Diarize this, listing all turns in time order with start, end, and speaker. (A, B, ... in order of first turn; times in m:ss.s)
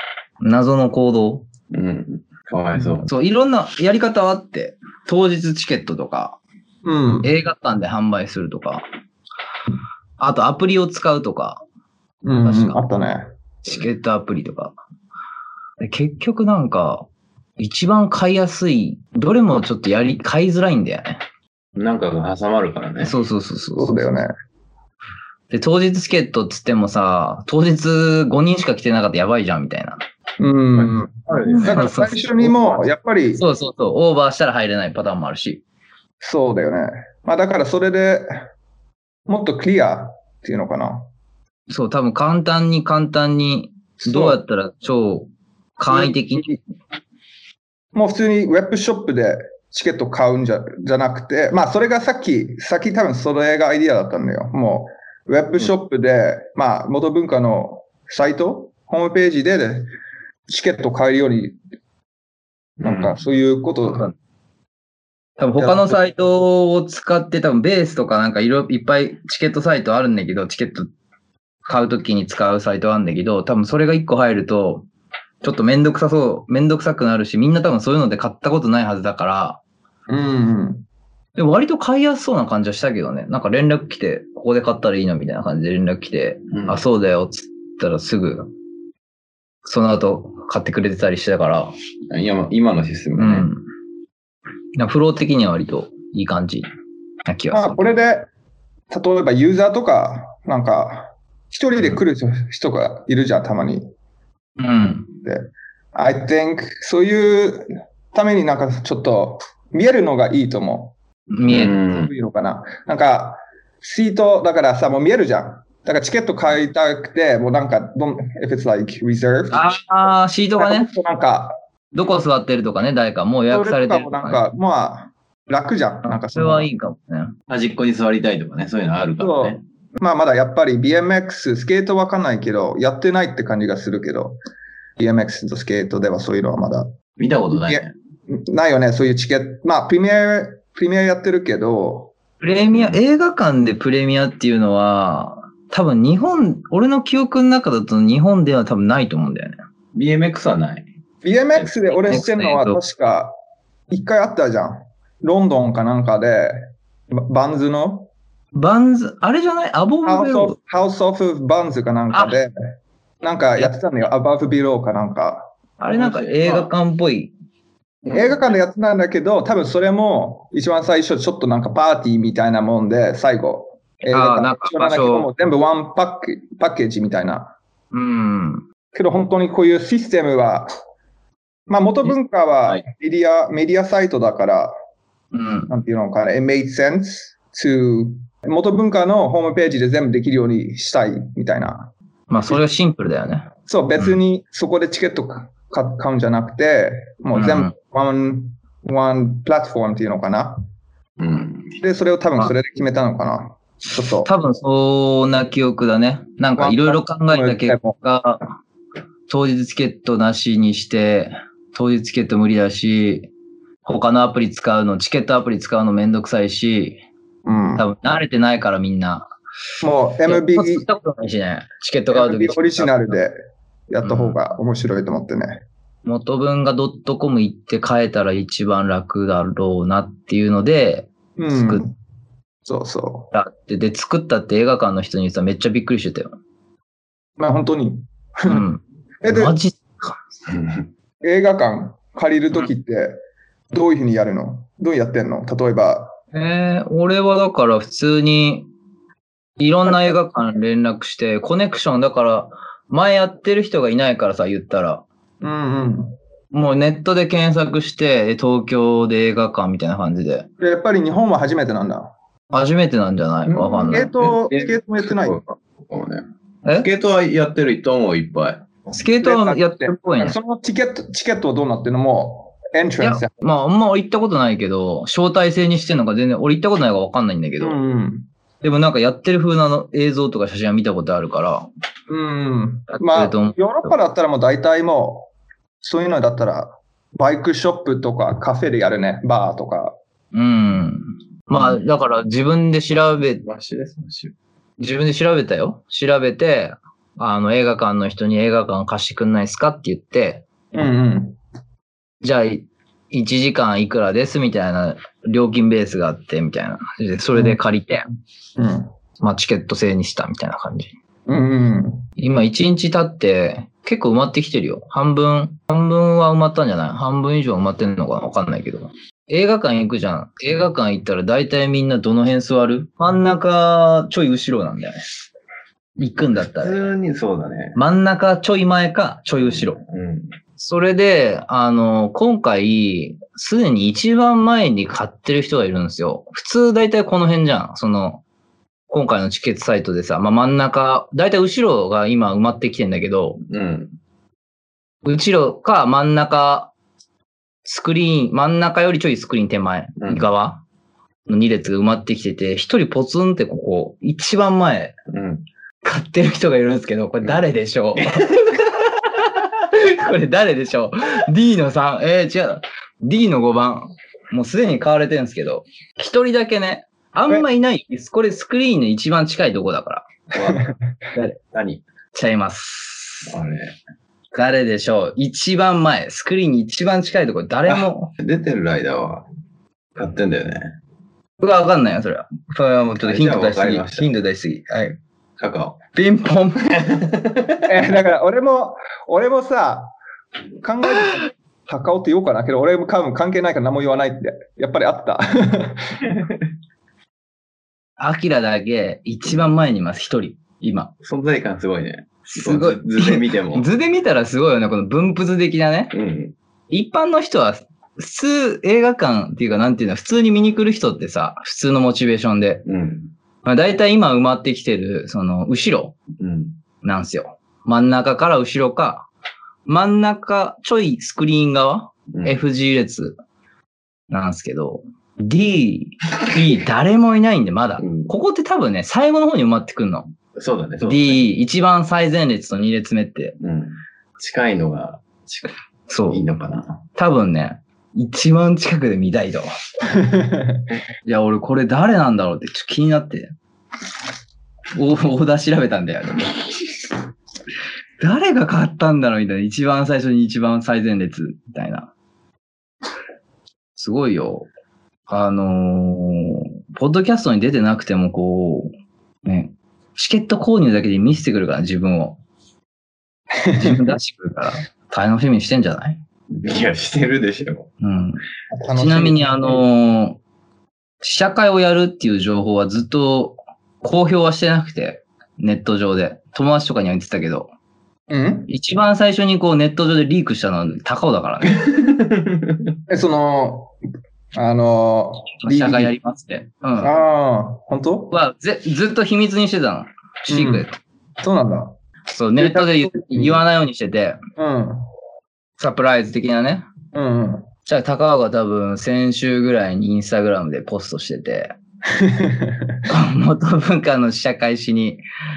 0:00.4-0:01.4 A
0:01.7-0:03.1 B
0:03.0-0:06.4 A
0:06.8-0:07.3 C
0:07.2-0:08.8 A
0:10.2-0:11.6 A
0:12.2-0:13.3 C
0:12.4-0:12.8 A
0:13.6-0:14.7 A
0:15.8-0:17.0 A
0:17.6-0:21.2 A
0:21.8-0:23.1 B
0:23.0-0:24.0 A
0:23.8-0:24.3 C
0:25.5-0:30.0 A
0:30.4-0:33.4 C
0:30.8-0:32.8 B
0:31.5-0:32.2 A
0:33.4-0:35.6 A
0:36.2-0:38.3 C
0:39.3-0:41.1 C
0:41.7-0:46.5 A
0:44.0-0:44.4 C
0:45.9-0:46.6 C
0:47.9-0:59.9 C
1:00.5-1:01.6 C
1:02.8-1:03.1 B
1:02.8-1:04.1 C
1:03.9-1:04.1 A
1:05.4-1:10.9 A
1:05.6-1:06.0 C
1:11.6-1:14.9 A
1:15.4-1:19.6 A
1:20.1-1:20.8 C
1:21.4-1:28.5 A
1:26.5-1:26.8 B
1:29.6-1:31.7 A
1:32.1-1:33.5 B
1:33.2-1:33.6 A
1:34.8-1:36.7 A
1:37.2-1:37.9 A
1:37.5-1:38.3 C
1:38.9-1:43.9 C
1:44.6-1:45.1 A
1:45.2-1:50.9 C
1:51.3-1:51.8 A
1:51.5-1:52.1 B
1:51.5-1:59.7 C
1:59.5-2:00.9 A
2:00.6-2:01.6 C
2:01.9-2:04.4 A
2:03.5-2:06.7 C
2:06.1-2:07.3 A
2:07.5-2:09.6 B
2:09.2-2:14.4 C
2:15.0-2:16.9 C
2:17.2-2:17.9 B
2:17.5-2:22.1 C
2:22.4-2:29.6 A
2:29.9-2:30.9 B
2:31.2-2:33.3 C
2:32.0-2:32.8 A
2:33.9-2:38.1 C
2:38.5-2:40.6 A
2:40.0-2:45.5 C
2:45.8-2:47.3 A
2:45.9-2:46.7 B
2:48.0-2:48.4 B
2:48.1-2:57.5 C
2:54.1-2:55.3 A
2:57.9-2:58.6 A
2:58.9-3:00.7 C
3:01.7-3:04.7 C
3:05.3-3:05.7 A
3:05.7-3:11.9 C
3:12.3-3:14.2 A
3:13.7-3:20.6 C
3:17.3-3:17.7 A
3:21.2-3:21.8 B
3:21.8-3:24.3 C
3:24.2-3:28.4 A
3:26.6-3:28.0 C
3:29.3-3:33.3 A
3:33.8-3:37.0 A
3:37.4-3:37.8 C
3:37.8-3:39.3 A
3:39.8-3:40.8 C
3:40.2-3:43.1 A
3:42.1-3:43.4 C
3:43.9-3:45.6 C
3:44.0-3:44.4 A
3:46.0-3:51.8 A
3:51.4-3:52.0 C
3:52.6-3:53.3 C
3:53.3-3:56.3 A
3:57.4-3:58.6 C
3:58.5-4:00.2 A
3:59.2-3:59.6 C
4:00.5-4:00.9 B
4:01.2-4:03.2 C
4:03.7-4:06.2 C
4:06.3-4:08.7 A
4:09.6-4:15.0 A
4:15.4-4:16.1 C
4:16.5-4:20.5 A
4:20.6-4:22.1 C
4:22.5-4:24.1 A
4:23.7-4:25.4 C
4:23.9-4:26.2 B
4:26.8-4:28.6 B
4:28.9-4:30.4 A
4:29.2-4:33.3 C
4:33.0-4:37.8 A
4:37.6-4:38.3 C
4:38.6-4:41.7 A
4:42.1-4:45.3 C
4:42.9-4:43.9 A
4:45.8-4:50.0 C
4:50.3-4:53.4 A
4:53.4-4:54.3 B
4:54.8-5:00.4 A
5:00.7-5:01.4 C
5:02.2-5:08.0 A
5:08.6-5:08.9 C
5:09.2-5:10.9 A
5:11.3-5:12.0 C
5:12.2-5:25.1 A
5:26.0-5:26.8 A
5:26.6-5:27.8 B
5:27.7-5:29.8 A
5:29.4-5:30.3 B
5:30.6-5:38.2 A
5:38.9-5:43.4 A
5:43.5-5:43.9 B
5:45.0-5:46.7 A
5:47.6-5:50.6 A
5:50.0-5:50.2 B
5:51.3-5:55.0 A
5:55.1-5:55.4 B
5:55.8-6:10.1 A
5:58.0-5:58.4 B
6:10.3-6:10.7 B
6:11.5-6:11.8 B
6:12.1-6:13.3 A
6:13.3-6:13.7 B
6:14.3-6:18.1 A
6:17.7-6:19.2 B
6:20.0-6:20.7 B
6:21.4-6:25.0 A
6:23.0-6:24.1 B
6:25.4-6:25.8 B
6:25.9-6:26.7 A
6:26.7-6:27.7 B
6:27.7-6:29.9 C
6:30.6-6:36.3 C
6:38.0-6:40.9 A
6:41.0-6:43.7 B
6:42.3-6:45.9 A
6:45.9-6:46.3 B
6:46.7-6:52.6 A
6:52.6-6:53.1 B
6:53.4-6:56.0 A
6:56.2-6:56.5 B
6:56.8-6:59.1 A
6:59.6-7:03.2 A
7:02.1-7:02.4 B
7:04.1-7:10.1 A
7:07.8-7:08.1 B
7:10.4-7:11.2 B
7:10.8-7:13.4 A
7:13.4-7:15.5 B
7:15.9-7:16.2 A
7:16.1-7:16.8 B
7:16.9-7:19.5 A
7:19.8-7:20.6 C
7:21.0-7:23.3 A
7:24.8-7:26.4 A
7:28.0-7:31.9 A
7:33.8-7:34.5 A
7:35.1-7:38.7 A
7:39.2-7:42.2 A
7:43.4-7:44.0 C
7:43.5-7:46.0 A
7:46.3-7:47.7 B
7:47.8-7:48.2 A
7:48.5-7:49.6 C
7:48.8-7:50.2 A
7:51.0-7:57.5 A
7:58.1-7:58.5 C
7:58.5-8:01.6 A
8:01.5-8:02.7 B
8:02.9-8:03.7 C
8:04.3-8:05.9 C
8:05.4-8:06.9 A
8:06.8-8:08.1 C
8:08.1-8:10.8 A
8:10.3-8:10.7 C
8:11.2-8:11.8 C
8:12.1-8:14.2 A
8:12.4-8:13.4 C
8:14.4-8:14.8 C
8:15.6-8:16.6 A
8:16.9-8:17.5 C
8:17.6-8:21.5 A
8:21.9-8:22.8 C
8:22.9-8:25.0 A